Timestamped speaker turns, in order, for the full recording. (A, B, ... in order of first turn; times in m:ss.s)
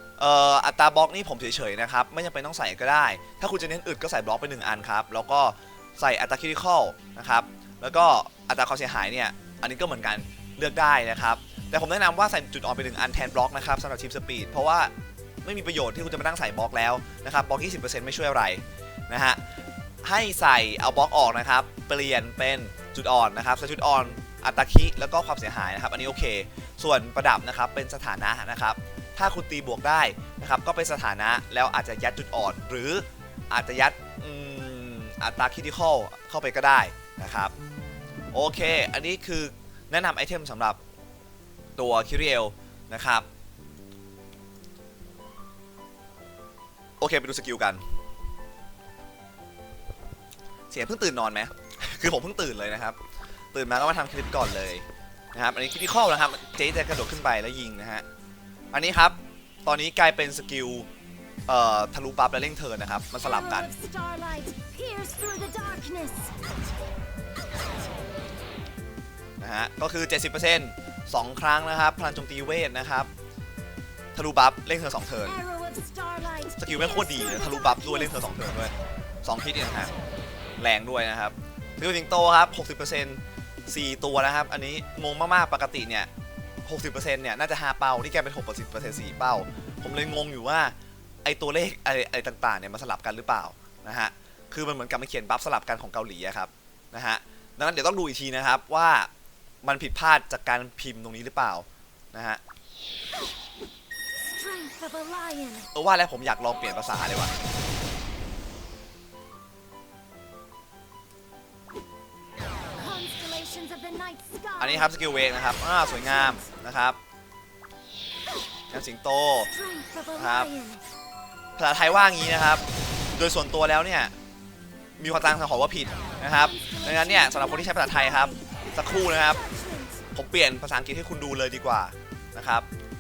0:00.2-0:14.9 A
0:15.4-0:19.4 A
0:20.0-0:37.5 A
0:38.3-0:40.8 A
0:41.8-0:43.3 A
0:47.0-0:47.8 A
0:50.7-0:53.0 A
0:53.5-0:58.0 A
0:58.7-1:00.9 A
1:01.5-1:03.7 A
1:03.2-1:06.3 B
1:09.4-1:13.1 A
1:14.2-1:15.4 A
1:15.2-1:18.5 B
1:16.6-1:19.9 A
1:20.6-1:26.1 A
1:26.7-1:39.1 A
1:39.6-1:42.4 A
1:44.2-1:45.7 B
1:45.7-1:47.3 A
1:52.8-1:56.5 B
1:54.6-1:57.0 A
1:58.7-1:59.5 A
1:59.5-2:00.8 B
2:00.2-2:00.5 A
2:01.6-2:04.1 A
2:05.0-2:09.4 A
2:06.3-2:10.0 B
2:10.1-2:12.7 A